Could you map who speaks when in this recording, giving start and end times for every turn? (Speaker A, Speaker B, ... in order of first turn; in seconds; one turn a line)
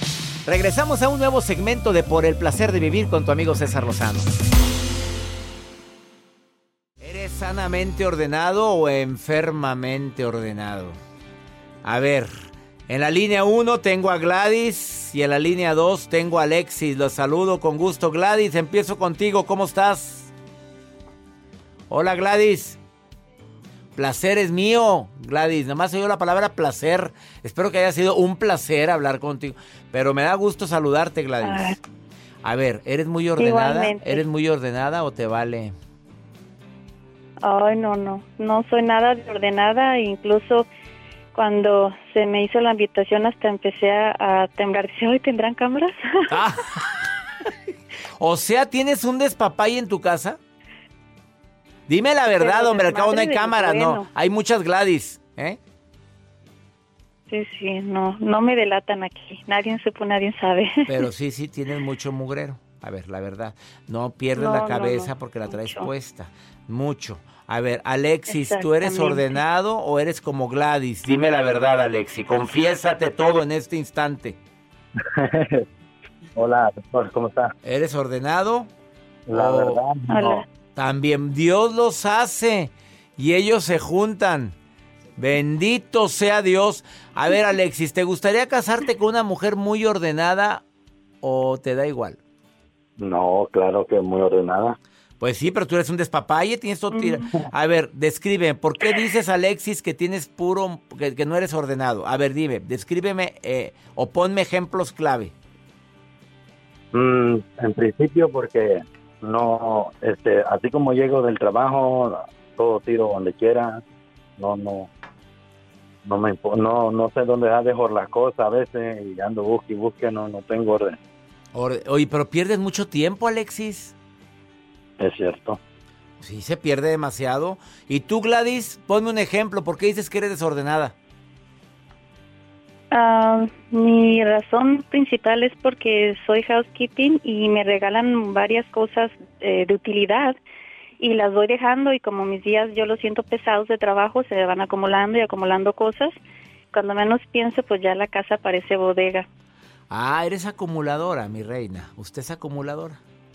Speaker A: 0.5-4.4
Speaker A: 7.0-11.0
Speaker A: 11.8-20.3
Speaker A: 21.9-22.8
Speaker A: 23.9-31.8
Speaker B: 31.4-31.8
Speaker A: 32.4-35.7
Speaker B: 33.4-34.2
Speaker B: 37.4-40.7
Speaker B: 41.3-46.5
Speaker A: 46.3-47.0
Speaker A: 48.2-50.4
Speaker A: 51.9-55.6
Speaker B: 52.4-54.1
Speaker B: 57.3-61.1
Speaker A: 60.9-74.4
Speaker B: 64.3-65.9
Speaker B: 68.3-69.3
Speaker C: 75.0-75.7
Speaker C: 76.3-77.5
Speaker A: 77.6-78.7
Speaker C: 79.3-80.4
Speaker A: 79.3-79.8
Speaker B: 80.1-80.4
Speaker A: 80.8-84.5
Speaker A: 85.2-90.6
Speaker A: 91.2-92.2
Speaker C: 93.0-94.8
Speaker A: 95.2-105.3
Speaker C: 106.9-113.8
Speaker C: 114.4-114.9
Speaker C: 116.0-121.0
Speaker A: 121.5-123.9
Speaker C: 125.0-125.6
Speaker A: 126.2-130.9
Speaker B: 132.9-140.4
Speaker B: 141.0-146.1
Speaker B: 146.7-149.3
Speaker A: 149.9-153.0